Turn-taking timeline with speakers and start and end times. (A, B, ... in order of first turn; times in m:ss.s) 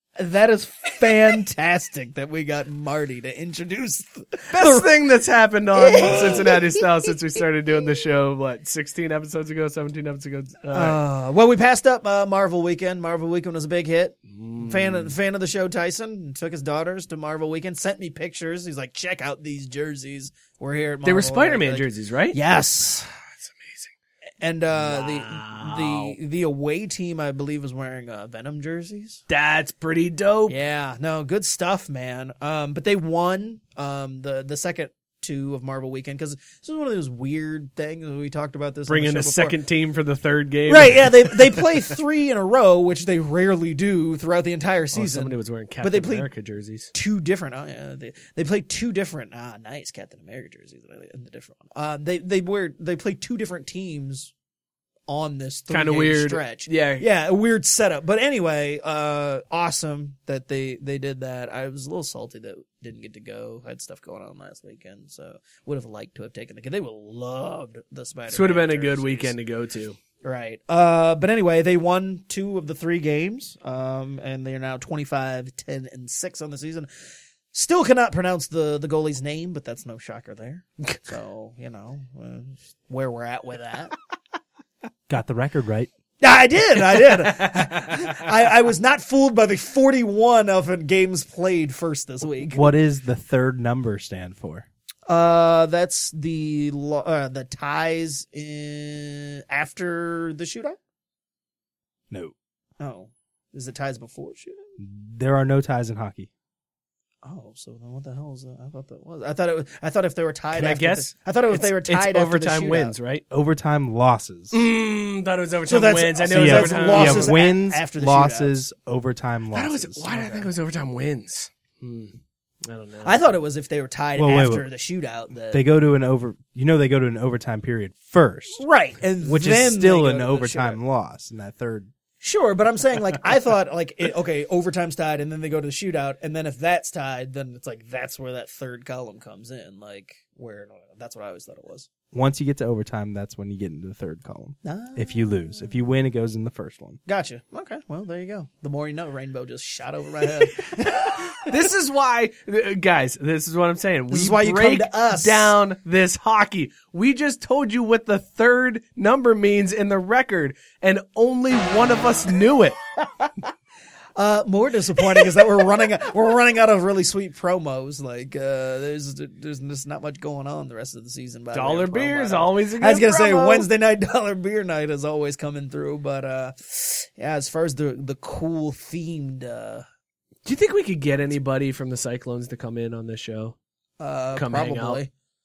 0:00.2-0:05.0 A
0:04.5-0:11.0 B
0:05.7-0:07.1 A
0:10.7-0:23.1 A
0:14.3-0:15.1 B
0:21.0-0:22.4 B
0:23.4-0:23.9 B
0:24.4-0:29.2 A
0:24.7-0:26.2 B
0:29.3-0:30.6 B
0:30.5-0:39.6 A
0:38.9-0:41.7 B
0:40.7-0:46.3 A
0:44.9-0:46.9 B
0:46.9-0:54.3 A
0:55.1-1:09.3 A
0:55.7-0:57.0 B
1:08.3-1:10.0 B
1:10.2-1:16.9 A
1:17.5-1:23.9 A
1:25.1-1:25.9 C
1:26.2-1:32.7 A
1:32.4-1:34.6 C
1:35.1-1:40.8 A
1:42.8-1:44.7 A
1:44.8-1:46.3 C
1:47.2-1:52.9 A
1:50.5-1:53.2 B
1:53.3-1:54.6 C
1:54.5-1:57.3 B
1:55.6-1:58.6 A
1:56.3-2:00.0 C
1:59.5-2:03.3 B
2:00.1-2:00.5 A
2:03.0-2:05.6 A
2:04.2-2:04.7 C
2:05.5-2:08.6 C
2:08.6-2:10.8 A
2:09.2-2:11.9 C
2:12.2-2:21.9 A
2:22.1-2:27.0 C
2:24.6-2:25.8 A
2:27.1-2:31.5 A
2:31.4-2:42.8 B
2:34.1-2:35.5 A
2:44.2-2:59.8 A
2:51.5-2:53.7 B
3:00.4-3:03.6 B
3:04.0-3:05.1 A
3:04.3-3:05.0 B